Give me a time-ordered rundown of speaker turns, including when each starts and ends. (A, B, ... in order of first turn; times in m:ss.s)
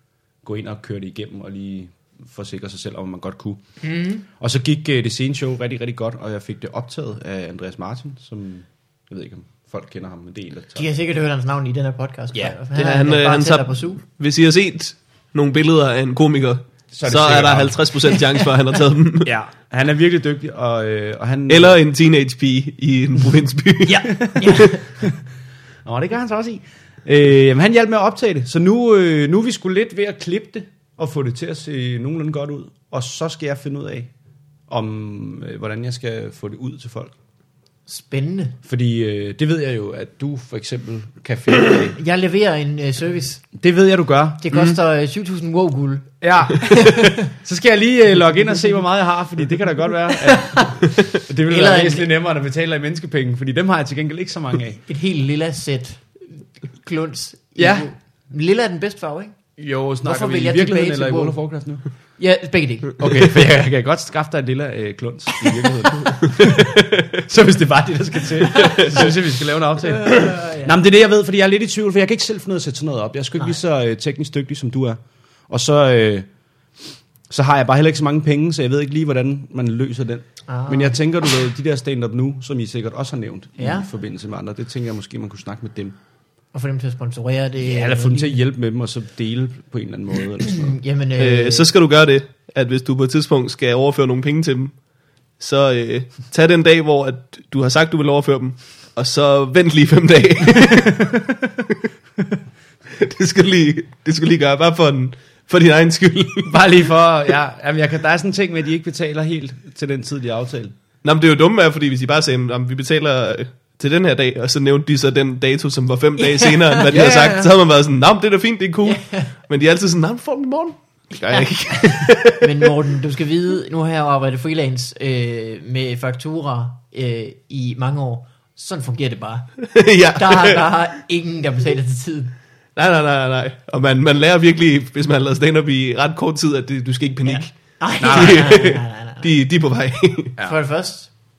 0:00.4-0:03.6 A
0:03.8-0:04.2 B
0:04.3-0:10.8 A
0:10.8-0:14.0 B
0:12.7-0:19.3 C
0:16.9-0:17.8 A
0:19.2-0:21.8 A
0:21.5-0:24.1 C
0:23.9-0:24.8 B
0:24.2-0:25.2 A
0:25.8-0:34.1 A
0:34.7-0:37.1 A
0:37.9-0:38.6 B
0:38.6-0:42.0 A
0:42.0-0:43.5 B
0:43.5-0:44.5 A
0:44.4-0:47.3 B
0:46.2-0:54.8 A
0:50.2-0:52.1 B
0:54.9-0:59.4 B
0:57.6-0:57.9 A
0:59.6-1:01.8 A
1:00.0-1:01.4 B
1:02.2-1:03.0 B
1:03.0-1:16.3 A
1:08.4-1:09.1 B
1:09.9-1:10.8 B
1:17.3-1:25.9 A
1:20.5-1:21.0 B
1:23.6-1:23.9 B
1:26.5-1:28.4 B
1:27.6-1:30.8 A
1:30.5-1:31.7 B
1:31.2-1:34.7 C
1:35.4-1:41.1 C
1:40.6-1:41.5 A
1:42.9-1:46.6 C
1:46.4-1:50.7 A
1:51.0-2:02.5 C
1:56.3-1:56.8 B
1:56.9-1:57.5 A
1:58.8-1:59.3 B
2:02.2-2:09.5 B
2:09.7-2:10.6 C
2:10.1-2:12.3 B
2:12.8-2:20.3 C
2:17.2-2:19.3 B
2:18.0-2:18.6 A
2:20.4-2:21.1 B